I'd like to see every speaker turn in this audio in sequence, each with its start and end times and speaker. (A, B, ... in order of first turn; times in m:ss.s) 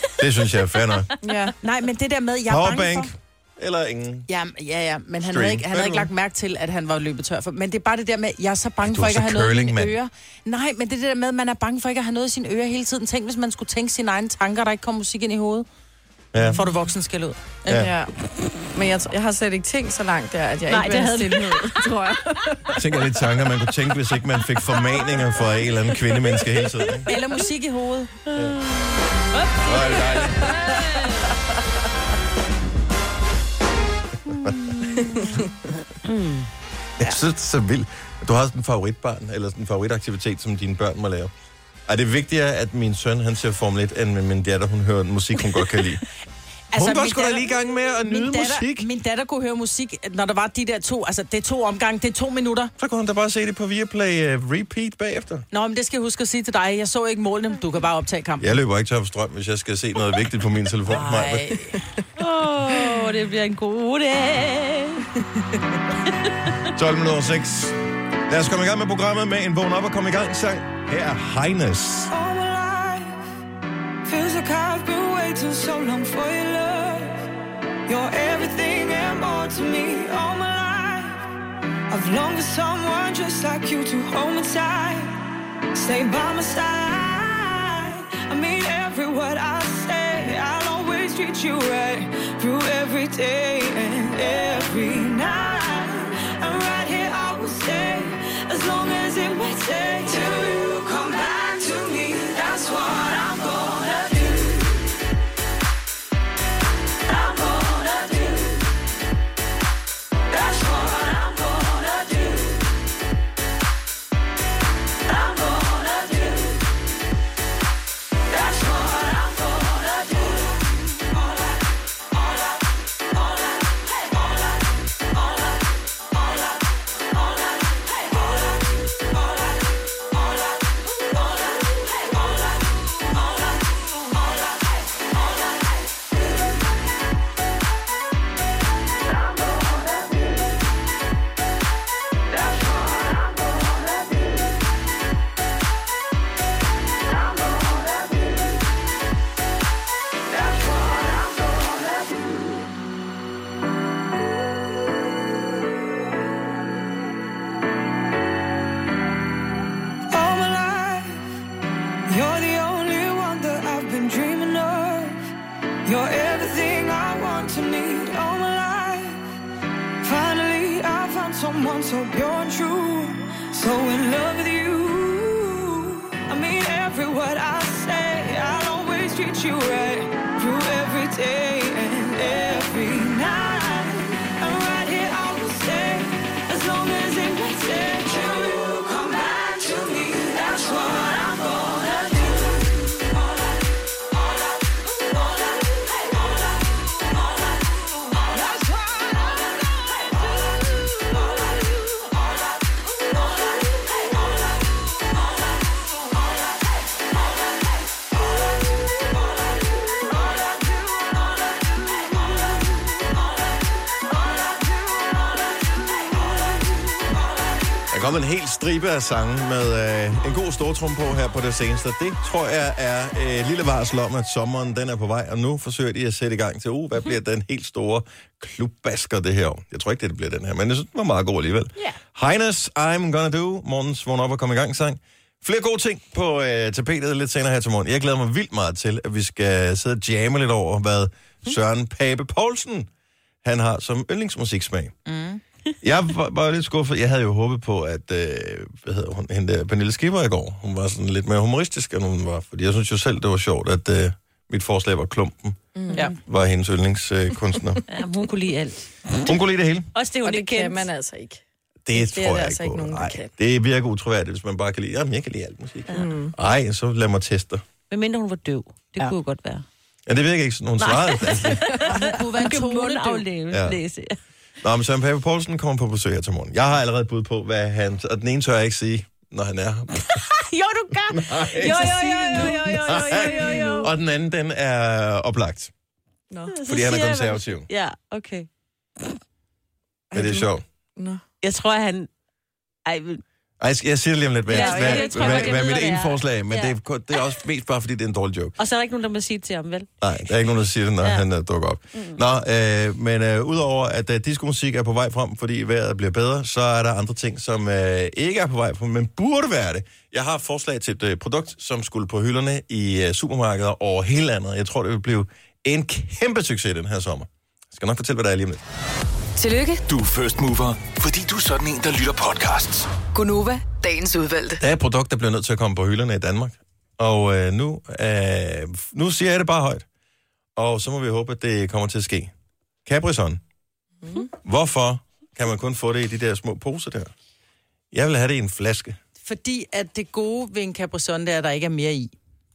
0:00.2-0:01.1 A
0:01.2-0:01.5 B
0:01.6-0:03.1 C
0:02.4-0:04.3 A
0:04.3-0:15.6 C
0:05.2-0:06.1 A
0:08.8-0:10.0 A
0:16.3-0:16.6 A
0:16.4-0:17.9 C
0:17.7-0:18.1 B
0:18.7-0:22.8 B
0:20.7-0:21.8 D
0:22.7-0:27.1 A
0:27.0-0:28.1 C
0:28.3-0:28.6 D
0:28.3-0:28.6 A
0:29.3-0:31.4 D
0:29.6-0:30.6 A
0:30.2-0:30.8 B
0:34.3-0:35.4 D
0:35.0-0:35.5 B
0:36.0-0:36.5 D
0:37.0-0:41.3 A
0:41.9-0:46.0 A
0:46.7-0:52.7 C
0:46.8-0:48.9 A
0:52.8-0:55.4 A
0:55.5-0:58.5 C
0:58.4-1:01.6 A
1:00.8-1:01.8 C
1:02.2-1:05.1 D
1:06.7-1:12.1 A
1:12.1-1:13.2 E
1:14.0-1:17.2 E
1:17.9-1:21.2 E
1:21.9-1:25.1 E
1:25.7-1:44.8 E
1:47.0-1:48.6 E
1:50.3-1:52.5 E
1:55.1-1:56.6 E
1:58.3-2:00.5 E
2:19.4-2:20.1 E
2:22.6-2:24.2 E
2:27.2-2:28.2 E
2:30.3-2:32.6 E
2:40.1-2:41.2 E
2:42.1-2:45.2 E
2:45.8-2:49.2 E
2:50.0-3:13.6 E
3:14.2-3:16.5 E
3:18.1-3:24.1 E
3:30.0-3:31.5 E
3:32.1-3:32.4 E
3:34.1-3:37.0 E
3:37.9-4:02.9 A
4:03.4-4:04.9 A
4:05.0-4:05.4 C
4:05.8-4:15.6 A
4:15.7-4:16.1 B
4:16.2-4:17.8 A
4:17.9-4:19.3 D
4:19.2-4:19.9 A
4:19.9-4:20.9 D
4:20.2-4:21.4 B
4:21.8-4:27.6 A
4:21.9-4:23.3 B
4:25.9-4:26.3 B
4:27.9-4:29.6 D
4:30.1-4:31.8 A
4:30.8-4:34.2 D
4:31.8-4:33.2 C
4:33.5-4:33.8 A
4:34.6-4:40.2 A
4:40.1-4:43.9 D
4:41.1-4:41.9 A
4:41.8-4:42.7 C
4:41.8-4:43.9 B
4:42.9-4:45.7 A
4:46.5-4:48.5 D
4:46.6-4:47.7 A
4:50.1-4:51.2 B
4:50.1-4:50.6 A
4:51.4-4:52.1 D
4:52.8-4:53.2 D
4:53.6-4:58.6 A
4:54.5-4:56.7 D
4:54.5-4:55.7 B
4:58.6-4:59.9 D
5:00.0-5:18.6 A
5:01.9-5:02.2 D
5:19.4-5:19.8 F
5:19.9-5:22.9 G
5:23.1-5:24.6 F
5:24.6-5:29.8 A
5:30.6-5:32.3 A
5:32.8-5:33.4 A
5:34.4-5:37.1 A
5:37.9-5:39.0 A
5:39.2-5:42.1 C